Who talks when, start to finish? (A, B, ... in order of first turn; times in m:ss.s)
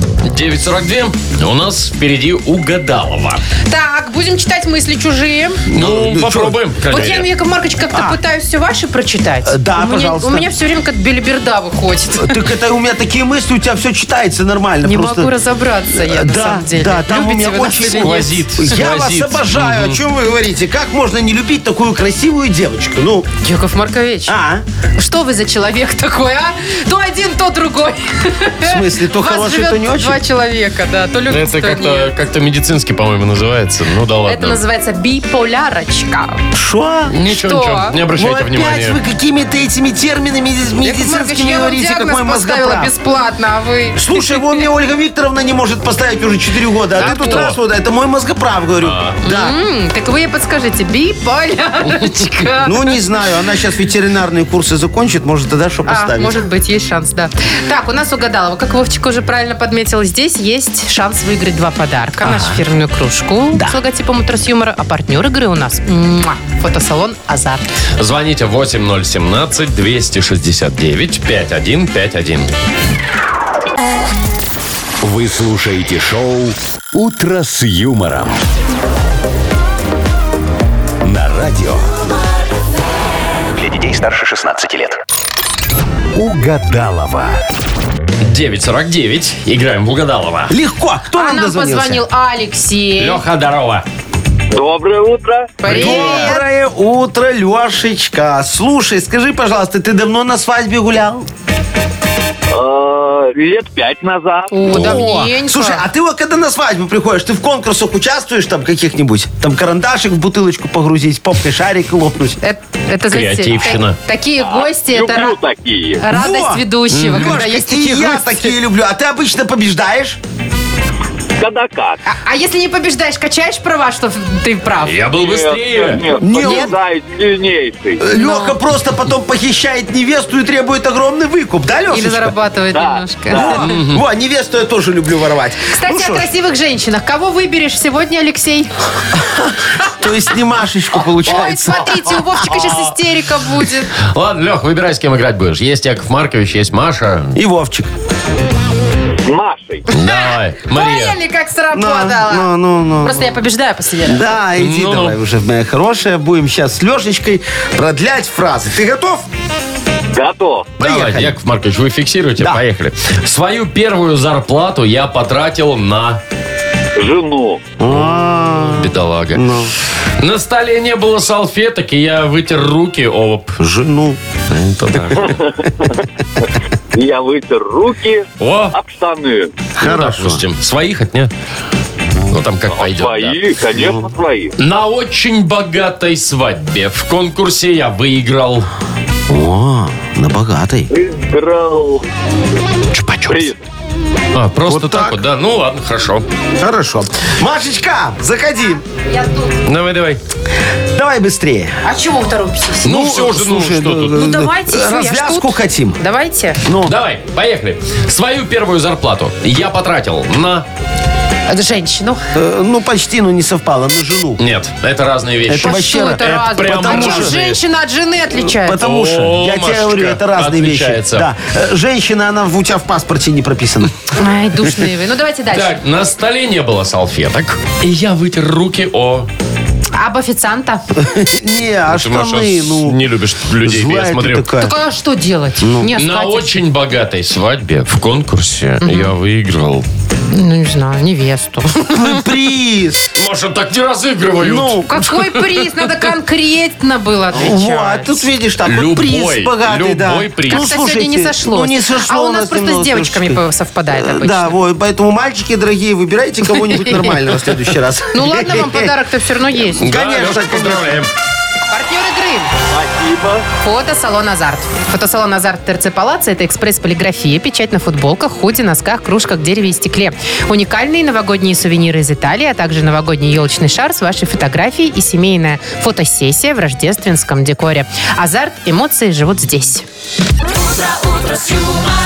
0:00.2-0:03.4 A
0:03.7-0:05.6 B
0:05.7-0:07.3 A
0:05.7-0:06.6 C
0:06.9-0:12.4 B
0:09.4-0:10.5 C
0:12.2-0:15.3 C
0:14.8-0:18.4 B
0:15.9-0:23.3 C
0:17.8-0:20.0 A
0:23.4-0:24.4 B
0:24.3-0:24.6 C
0:25.0-0:32.1 B
0:28.6-0:30.2 C
0:31.3-0:34.6 A
0:34.3-0:36.4 B
0:36.5-0:37.2 C
0:37.1-0:39.0 A
0:37.2-0:38.0 B
0:38.1-0:42.9 C
0:40.8-0:44.6 B
0:44.0-0:49.6 C
0:47.0-0:47.6 A
0:47.0-0:47.5 B
0:48.8-0:49.2 A
0:49.2-0:53.0 B
0:52.6-0:56.4 C
0:55.9-1:07.6 B
1:02.2-1:02.6 C
1:08.0-1:12.5 A
1:15.0-1:18.4 D
1:21.0-1:21.9 D
1:23.5-1:25.0 D
1:26.1-1:27.4 D
1:28.2-1:30.6 A
1:30.5-1:32.0 C
1:31.2-1:33.2 B
1:33.0-1:33.8 A
1:34.5-1:35.7 E
1:35.6-1:36.4 B
1:35.6-1:41.3 C
1:35.7-1:36.0 A
1:42.5-1:44.6 E
1:44.5-1:45.8 B
1:44.6-1:52.4 C
1:52.4-1:55.4 B
1:53.1-1:54.0 A
1:54.4-1:56.0 E
1:56.0-1:58.6 B
1:56.1-2:00.2 C
1:56.9-1:57.4 A
2:01.4-2:02.0 E
2:02.1-2:05.0 B
2:04.8-2:06.0 A
2:05.1-2:08.0 E
2:06.2-2:06.8 C
2:06.4-2:06.7 B
2:08.0-2:12.4 C
2:08.1-2:08.6 B
2:11.9-2:13.7 B
2:12.7-2:13.6 E
2:13.3-2:16.3 C
2:13.6-2:14.0 A
2:15.7-2:18.7 B
2:19.2-2:22.8 C
2:21.2-2:23.9 B
2:24.0-2:27.4 A
2:27.4-2:27.9 C
2:29.3-2:29.9 E
2:29.9-2:31.2 A
2:29.9-2:32.5 B
2:31.7-2:33.4 C
2:33.0-2:34.3 B
2:34.0-2:39.3 C
2:34.6-2:35.2 A
2:40.1-2:40.8 E
2:40.8-2:41.4 C
2:40.8-2:46.2 A
2:47.0-2:47.7 E
2:47.8-2:49.7 C
2:47.9-2:49.5 A
2:50.2-2:53.6 A
2:53.6-2:55.4 C
2:54.8-2:55.3 A
2:55.3-2:55.6 E
2:56.9-2:59.6 E
2:58.4-2:58.8 A
2:59.8-3:00.4 C
2:59.8-3:01.3 A
3:02.3-3:03.4 A
3:02.7-3:04.5 E
3:03.7-3:04.1 C
3:04.6-3:08.7 A
3:09.3-3:10.9 C
3:10.9-3:12.0 E
3:12.9-3:13.5 A
3:13.3-3:13.6 E
3:14.3-3:16.2 A
3:14.6-3:15.2 C
3:16.6-3:18.8 C
3:19.0-3:19.6 B
3:19.6-3:20.2 A
3:20.9-3:21.8 C
3:21.8-3:22.9 B
3:22.8-3:24.2 A
3:22.8-3:26.0 C
3:24.1-3:26.6 B
3:26.6-3:27.0 C
3:26.8-3:30.7 A
3:31.5-3:32.2 B
3:32.4-3:34.4 C
3:34.4-3:37.6 A
3:35.5-3:37.4 C
3:35.6-3:38.8 B
3:38.5-3:44.0 C
3:38.8-3:41.3 A
3:44.2-3:45.8 B
3:45.5-3:49.3 A
3:50.0-3:50.8 B
3:51.0-3:53.0 C
3:51.9-3:54.4 A
3:53.6-3:54.7 C
3:54.6-3:56.6 B
3:55.6-3:55.9 C
3:56.0-3:59.8 A
3:58.8-3:59.1 B
4:00.3-4:02.2 B
4:01.9-4:03.1 C
4:03.2-4:04.8 A
4:04.4-4:05.0 C
4:04.9-4:08.2 B
4:07.3-4:13.4 C
4:08.6-4:10.7 A
4:10.5-4:14.5 B
4:14.0-4:18.9 C
4:18.1-4:19.8 B
4:19.7-4:21.0 C
4:19.8-4:21.1 A
4:21.7-4:22.5 B
4:22.7-4:23.5 E
4:23.6-4:39.8 B